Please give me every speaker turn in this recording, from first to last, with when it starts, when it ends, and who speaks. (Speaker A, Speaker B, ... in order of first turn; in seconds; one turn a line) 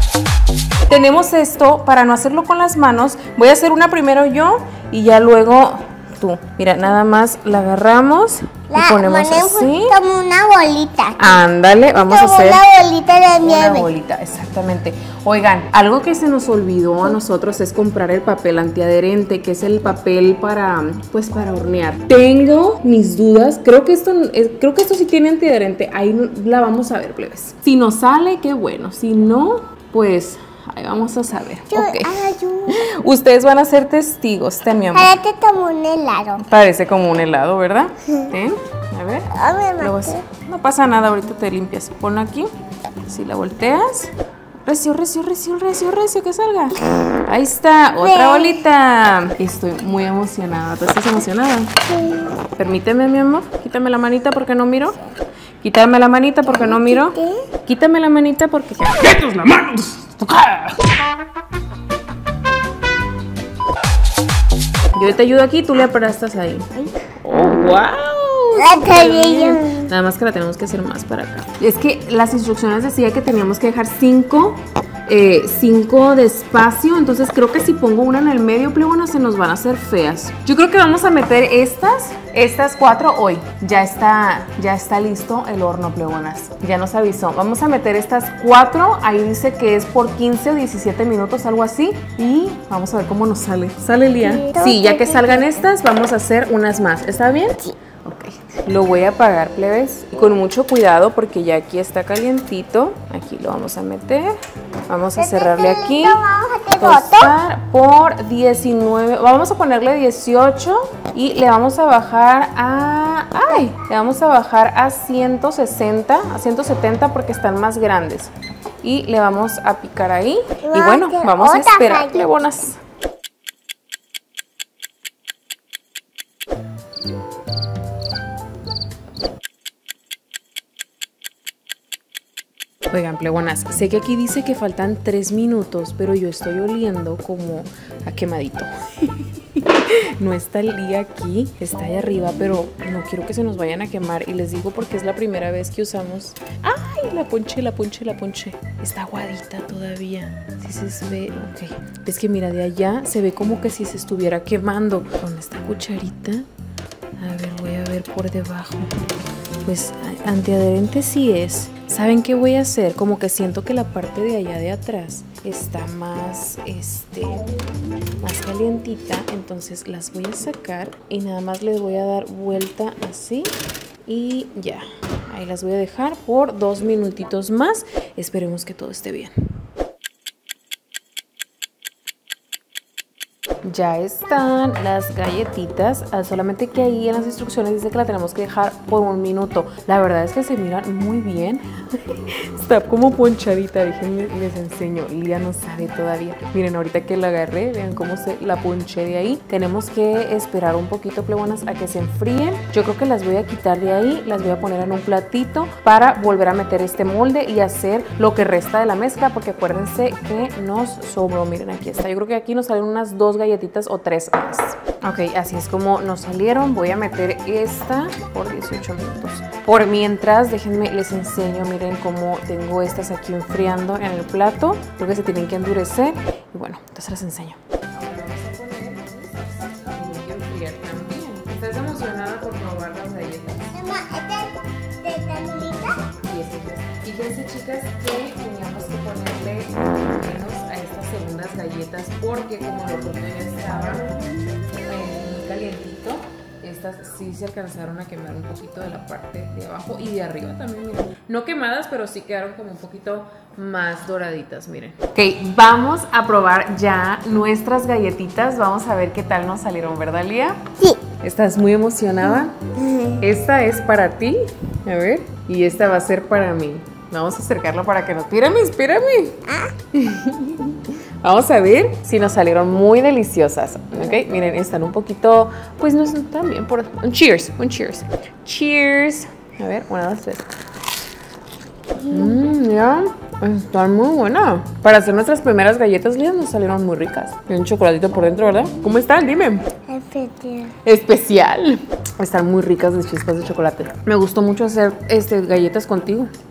Speaker A: 0.9-10.0
Speaker B: 8.7-11.4
Speaker A: 11.2-12.6
Speaker B: 11.9-13.9
Speaker A: 13.4-32.1
Speaker B: 31.7-32.8
Speaker A: 32.7-35.1
Speaker B: 34.9-36.4
Speaker A: 36.4-39.3
Speaker B: 39.3-40.2
Speaker A: 39.8-42.5
Speaker A: 43.1-44.1
Speaker A: 44.7-51.7
Speaker B: 48.0-48.6
Speaker B: 51.9-52.3
Speaker A: 52.6-55.0
Speaker A: 55.6-60.9
Speaker B: 56.5-57.4
Speaker A: 65.0-66.7
Speaker A: 67.2-104.3
Speaker B: 68.5-69.9
Speaker B: 94.2-95.6
Speaker A: 104.9-106.2
Speaker B: 105.2-107.3
Speaker A: 106.8-118.3
Speaker A: 118.8-122.8
Speaker B: 120.6-122.3
Speaker A: 132.9-156.5
Speaker A: 157.2-158.9
Speaker A: 159.7-167.5
Speaker A: 168.2-173.5
Speaker A: 174.1-179.3
Speaker A: 183.6-233.8
Speaker B: 233.7-236.0
Speaker A: 236.1-244.2
Speaker A: 244.9-260.6
Speaker A: 261.2-262.6
Speaker B: 262.8-263.2
Speaker A: 263.2-269.4
Speaker B: 269.5-269.7
Speaker A: 269.9-280.5
Speaker A: 282.1-289.6
Speaker B: 289.9-290.7
Speaker A: 290.9-296.3